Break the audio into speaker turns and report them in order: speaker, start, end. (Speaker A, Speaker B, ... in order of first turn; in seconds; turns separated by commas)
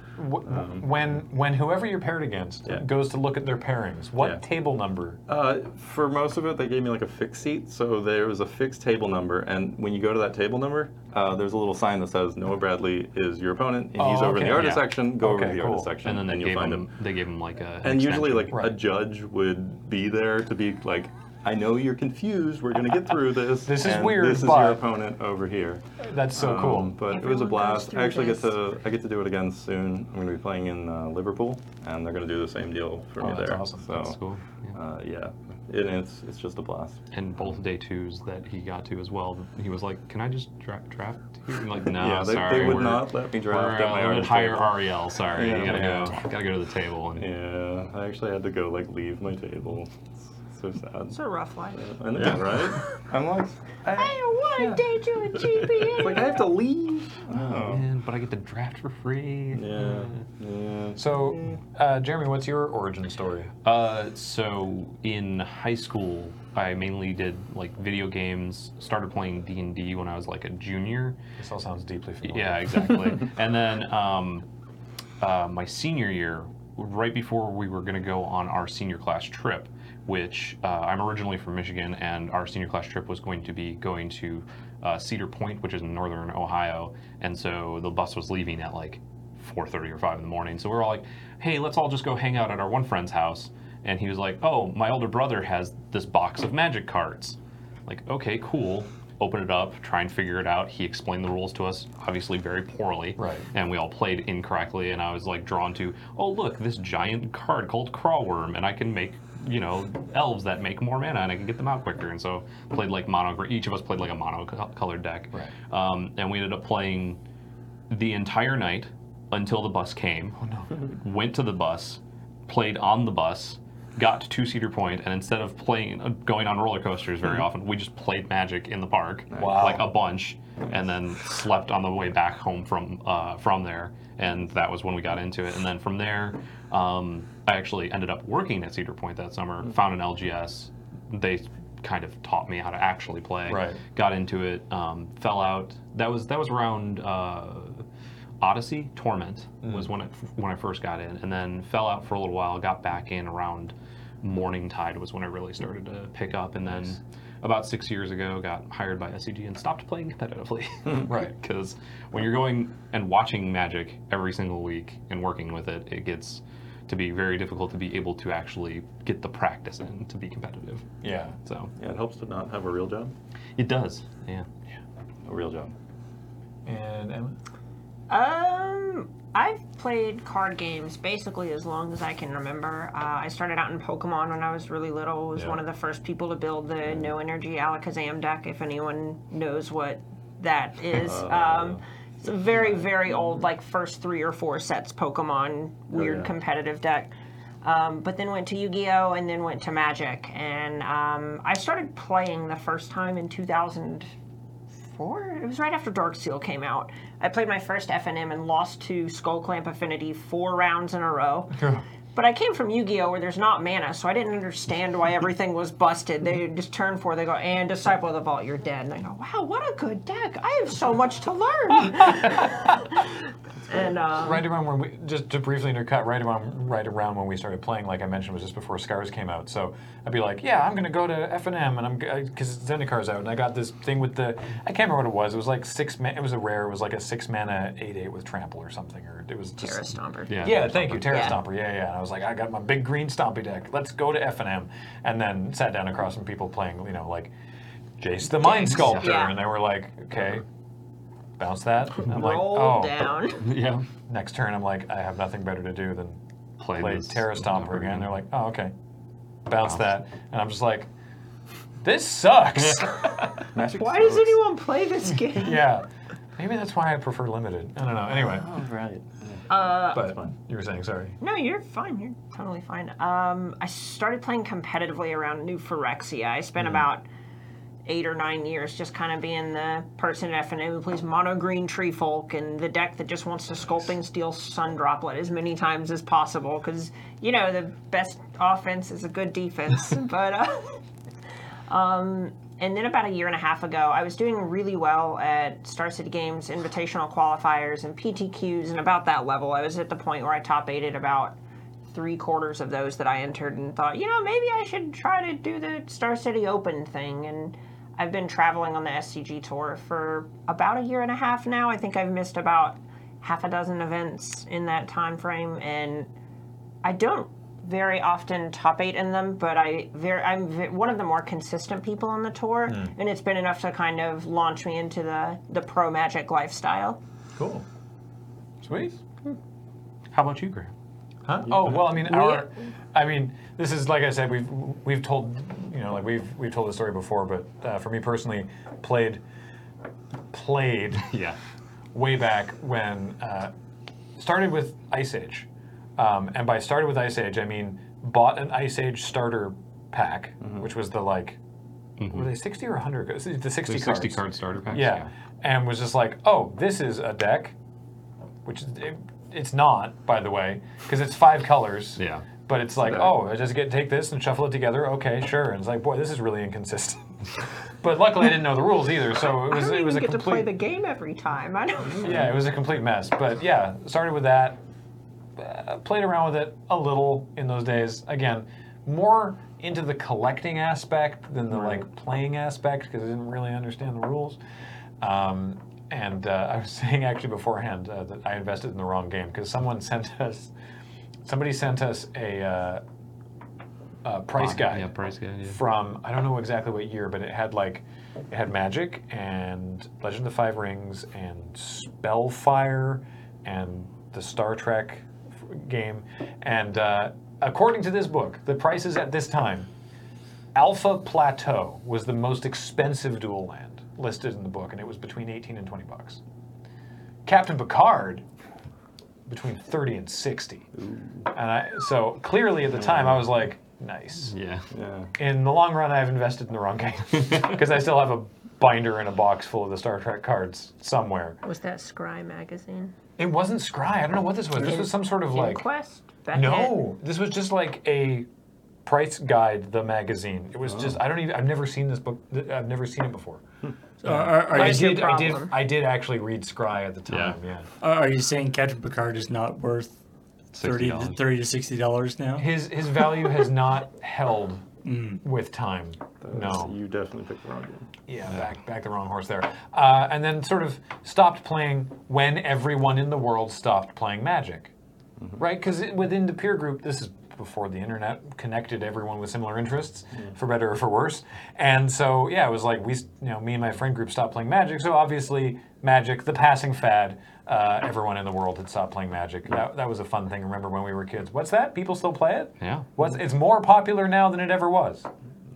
Speaker A: 0.1-5.2, Speaker B: 0.5-0.9, Speaker B: 5.3-16.9, Speaker A: 13.9-15.9, Speaker C: 14.5-14.9, Speaker C: 16.0-18.5, Speaker B: 17.8-25.8, Speaker A: 23.6-24.8, Speaker A: 26.0-27.0, Speaker B: 26.4-34.2, Speaker D: 27.1-28.5, Speaker A: 33.2-33.9, Speaker C: 33.9-34.7, Speaker B: 34.7-37.0, Speaker C: 37.1-47.3, Speaker B: 41.9-44.8, Speaker B: 45.3-46.3, Speaker B: 47.2-51.2, Speaker D: 51.1-51.9, Speaker B: 51.7-54.8, Speaker D: 53.9-56.5, Speaker B: 55.8-57.8, Speaker C: 57.3-60.1, Speaker B: 59.5-61.0, Speaker A: 61.0-63.5, Speaker C: 63.6-71.2, Speaker A: 71.4-72.9, Speaker C: 72.2-74.5, Speaker C: 75.2-117.2, Speaker A: 103.2-103.5, Speaker C: 117.9-147.8, Speaker A: 120.4-120.7, Speaker B: 129.3-129.6, Speaker A: 129.3-129.8, Speaker A: 143.5-143.8, Speaker C: 148.4-170.9, Speaker A: 161.0-161.3, Speaker A: 171.0-171.3, Speaker C: 171.4-171.7, Speaker B: 171.8-173.1, Speaker C: 173.6-174.4, Speaker B: 175.2-175.7, Speaker A: 176.7-177.4, Speaker D: 178.1-197.1, Speaker A: 185.3-185.6, Speaker B: 190.9-191.8, Speaker B: 192.5-193.2, Speaker B: 195.9-196.3, Speaker D: 197.6-204.1, Speaker D: 204.9-223.1, Speaker A: 211.6-211.8, Speaker D: 223.7-224.4, Speaker A: 224.2-247.3, Speaker D: 239.6-240.5, Speaker C: 240.3-241.3, Speaker D: 241.1-241.3, Speaker A: 248.0-250.4, Speaker D: 248.4-249.4, Speaker C: 248.7-249.1, Speaker A: 251.4-253.1, Speaker D: 251.9-253.4, Speaker C: 253.4-253.8, Speaker A: 254.1-256.2, Speaker C: 256.6-258.1, Speaker A: 256.7-258.7, Speaker A: 259.5-260.9, Speaker A: 261.8-263.4, Speaker B: 263.5-264.4, Speaker D: 263.7-265.6, Speaker A: 265.2-265.8, Speaker A: 266.4-268.5, Speaker B: 268.3-270.3, Speaker D: 269.5-270.1, Speaker A: 269.9-271.2, Speaker D: 271.2-277.0, Speaker D: 277.9-290.8, Speaker D: 291.7-301.4, Speaker D: 301.9-316.1, Speaker D: 316.8-327.0, Speaker A: 322.7-322.9, Speaker A: 327.4-327.6, Speaker A: 328.6-329.0, Speaker C: 330.1-330.7, Speaker A: 331.2-339.2, Speaker D: 332.0-332.4, Speaker A: 340.3-341.1, Speaker C: 341.1-341.4, Speaker A: 341.9-343.5, Speaker A: 344.2-351.4, Speaker C: 352.0-352.3, Speaker A: 352.1-357.5, Speaker C: 353.6-355.1, Speaker A: 358.4-367.1, Speaker C: 362.0-362.2, Speaker A: 367.8-370.5, Speaker D: 369.3-372.1, Speaker A: 372.0-374.6, Speaker A: 375.4-384.4, Speaker A: 385.0-390.5, Speaker A: 391.2-392.8, Speaker A: 394.0-394.9, Speaker C: 394.4-395.6, Speaker A: 395.5-409.7, Speaker A: 410.5-416.2, Speaker A: 417.2-418.2, Speaker A: 419.3-420.7, Speaker B: 420.8-421.3, Speaker A: 421.3-424.3, Speaker B: 422.8-423.2, Speaker C: 424.3-424.7, Speaker B: 424.7-425.1, Speaker A: 425.1-431.4, Speaker D: 431.4-432.9, Speaker A: 433.2-435.6, Speaker D: 434.5-436.8, Speaker A: 436.3-438.3, Speaker A: 438.8-443.4, Speaker E: 444.0-445.0, Speaker A: 444.1-447.7, Speaker D: 444.5-445.6, Speaker C: 447.1-447.4, Speaker E: 447.8-449.9, Speaker C: 450.5-451.2, Speaker E: 450.6-452.5, Speaker A: 452.4-454.7, Speaker E: 454.8-455.2, Speaker A: 455.2-456.7, Speaker B: 456.2-457.9, Speaker A: 458.1-464.7, Speaker A: 465.4-485.1, Speaker C: 482.6-482.9